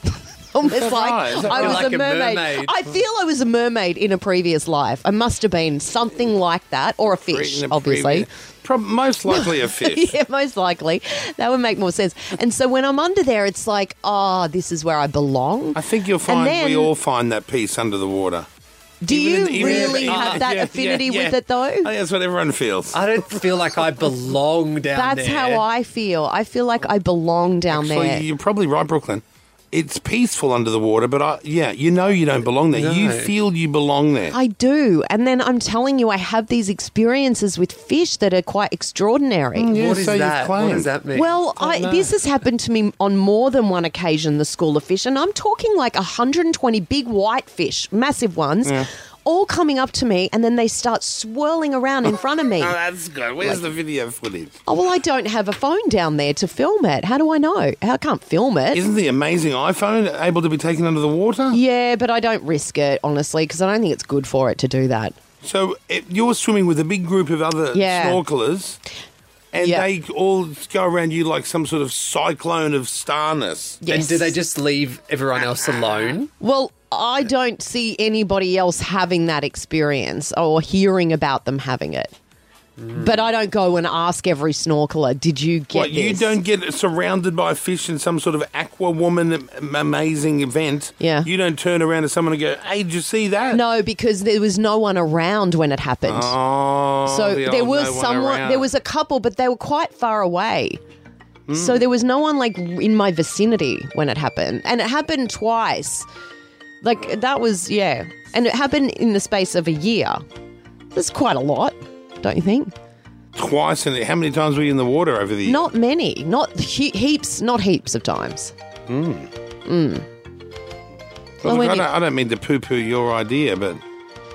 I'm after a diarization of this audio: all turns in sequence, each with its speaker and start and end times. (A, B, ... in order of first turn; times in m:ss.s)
0:00.5-0:08.3 A
0:00.6-0:01.9 B
0:01.4-0:02.7 C
0:07.1-0:10.2 B
0:09.3-0:16.9 A
0:15.7-0:18.5 B
0:19.0-0:21.9 A
0:19.1-0:23.2 B
0:19.6-0:20.4 C
0:22.9-0:25.6 C
0:24.9-0:28.2 A
0:27.7-0:34.4 B
0:32.7-0:33.3 C
0:34.3-0:39.7 A
0:39.6-0:40.9 B
0:39.7-0:42.0 C
0:41.1-0:52.8 A
0:41.7-0:42.0 B
0:52.6-0:54.6 B
0:53.4-0:53.7 A
0:54.7-0:58.8 A
0:58.7-1:01.6 B
1:01.5-1:05.2 A
1:05.4-1:08.8 B
1:07.7-1:08.2 A
1:09.5-1:13.8 B
1:09.6-1:09.9 A
1:13.8-1:14.4 A
1:13.9-1:16.3 C
1:16.4-1:22.1 A
1:22.8-1:23.2 C
1:23.0-1:26.4 A
1:25.7-1:33.6 B
1:31.0-1:31.3 A
1:33.5-1:36.4 A
1:36.1-1:38.7 B
1:37.0-1:40.8 A
1:41.5-1:41.9 B
1:41.5-1:46.1 A
1:46.8-1:50.2 A
1:50.9-1:52.7 A
1:53.4-1:55.7 B
1:55.4-1:58.5 A
1:58.9-1:59.3 B
1:59.7-2:00.1 A
2:01.4-2:03.8 B
2:01.4-2:01.9 A